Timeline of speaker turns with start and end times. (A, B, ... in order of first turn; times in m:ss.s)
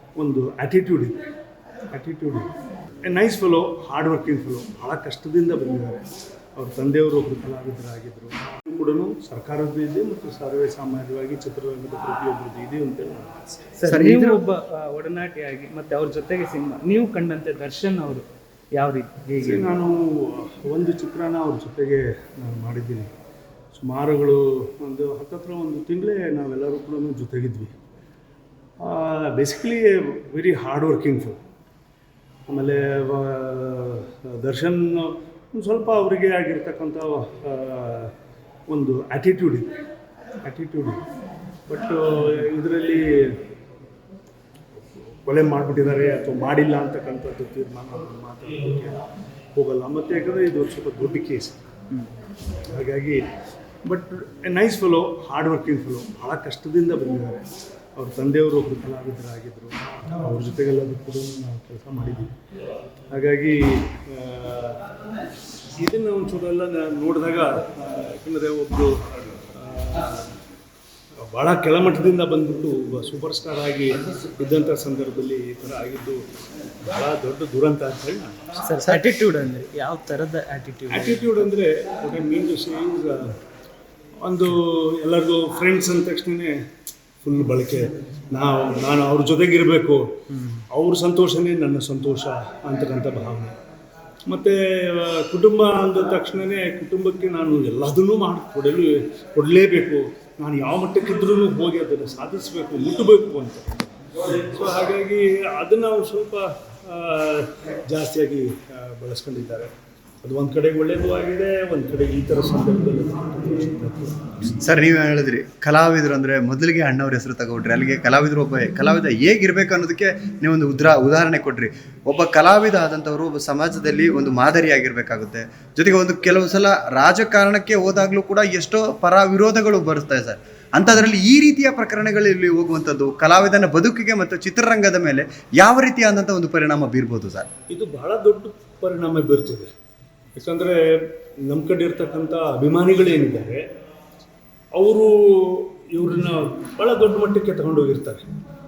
0:00.2-0:01.2 A
0:01.9-0:02.5 A
0:03.0-0:06.0 A
0:06.6-0:13.6 A
0:13.8-0:19.7 B
0:13.9-0:14.4 C
0:19.4-0:23.1 A
0:23.7-0:27.7 A
0:28.8-0:31.4 A
0:32.5-0:38.1 A
0:38.7-0:39.7 A
0:40.4-0:41.0 A
0:41.7-0:43.4 A
0:44.8-0:49.0 A
0:49.5-0:51.6 A
0:52.7-0:53.2 A
0:53.8-0:57.4 A
0:58.0-1:02.3 A
1:03.1-1:04.8 A
1:05.8-1:09.0 A
1:09.5-1:10.3 A
1:11.2-1:16.2 A
1:16.8-1:18.5 A
1:18.6-1:21.4 B
1:20.9-1:23.4 A
1:24.2-1:26.6 A
1:27.2-1:33.5 A
1:30.3-1:30.6 B
1:34.3-1:43.7 A
1:44.2-1:49.7 A
1:50.2-1:54.3 A
1:54.6-2:17.5 C
2:17.7-2:19.7 A
2:20.3-2:23.6 A
2:24.7-2:28.2 A